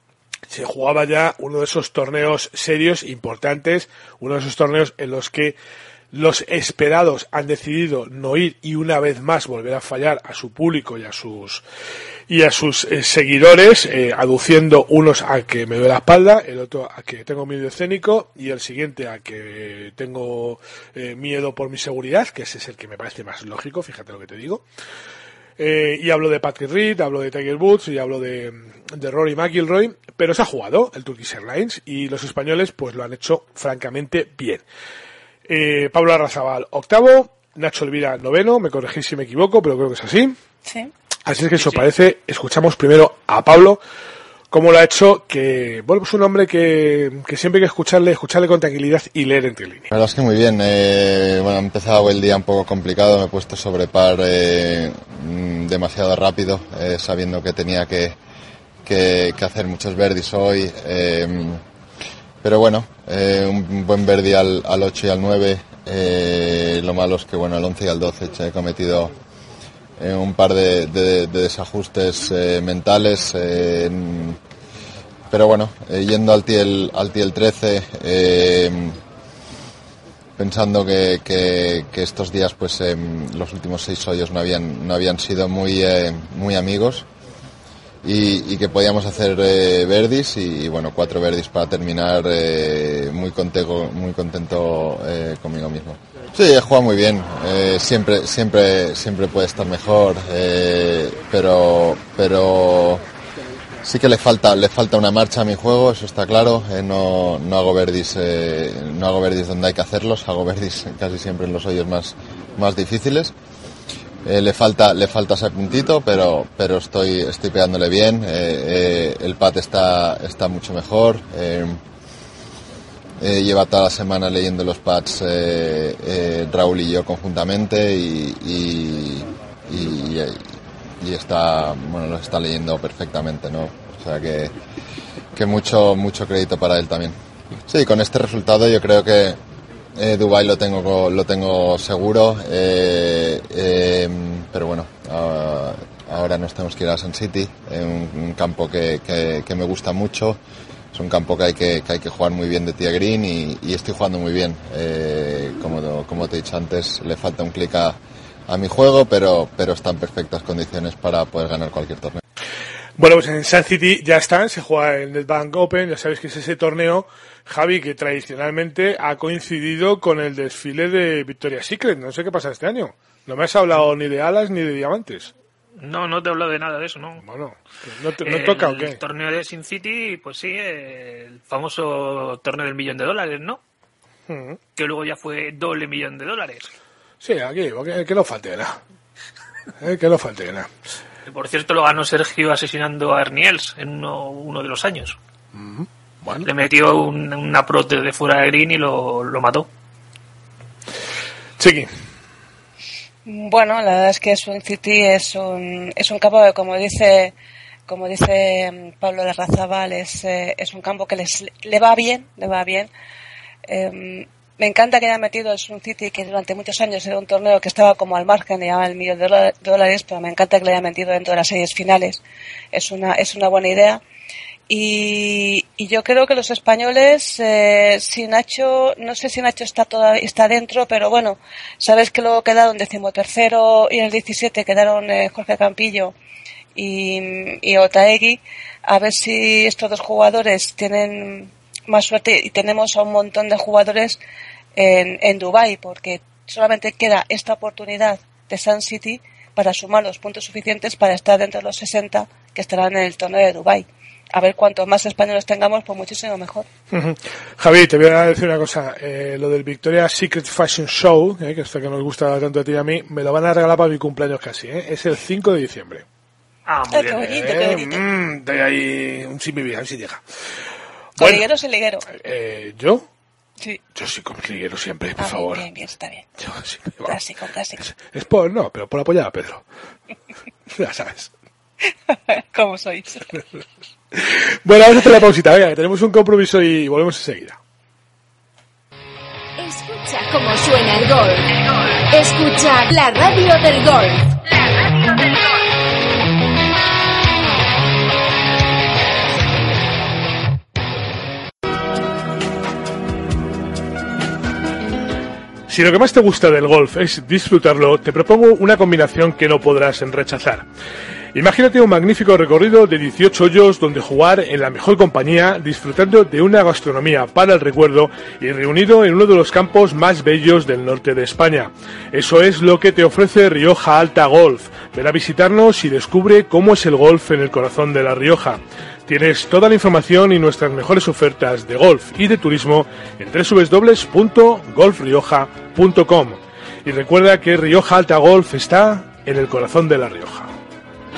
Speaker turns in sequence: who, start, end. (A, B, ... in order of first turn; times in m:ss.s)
0:00.5-0:05.6 A
0:06.1-0:11.6 A
0:12.3-0:24.6 A
0:25.6-0:34.6 A
0:35.5-0:40.4 A
0:40.6-0:40.9 B
0:41.3-0:43.8 A
0:44.5-0:49.9 A
0:49.9-0:58.2 C
0:58.8-1:01.6 C
1:02.4-1:09.1 C
1:10.0-1:14.4 C
1:15.3-1:19.0 C
1:20.4-1:27.1 C
1:28.0-1:43.0 C
1:43.8-1:53.3 C
1:54.2-2:01.8 C
2:03.2-2:10.5 C
2:11.0-2:14.5 C
2:15.4-2:17.1 C
2:17.7-2:19.4 C
2:20.0-2:30.4 C
2:30.9-2:42.2 C
2:43.0-2:55.3 A
2:55.8-2:57.2 D
2:57.2-2:59.0 A
2:58.2-3:03.6 D
3:04.3-3:04.6 A
3:04.8-3:06.7 D
3:07.2-3:08.8 A
3:09.8-3:10.7 A
3:11.3-3:15.2 D
3:15.5-3:16.5 A
3:16.4-3:19.7 D
3:21.6-3:21.9 A
3:23.3-3:27.4 B
3:27.9-3:32.9 B
3:33.7-3:44.0 B
3:44.7-3:56.2 B
3:56.8-4:04.2 B
4:04.8-4:16.7 B
4:16.9-4:26.0 A
4:26.7-4:27.4 D
4:26.9-4:28.0 B
4:27.3-4:30.2 A
4:31.2-4:31.5 A
4:31.2-4:32.0 B
4:32.1-4:33.0 A
4:34.0-4:35.6 A
4:35.2-4:36.3 B
4:36.4-4:37.2 A
4:37.0-4:37.8 B
4:37.8-4:39.6 A
4:40.7-4:41.3 A
4:42.1-4:43.4 B
4:44.1-4:47.6 A
4:49.6-4:51.5 E
4:52.1-4:55.3 E
5:05.7-5:10.6 A
5:11.3-5:40.5 A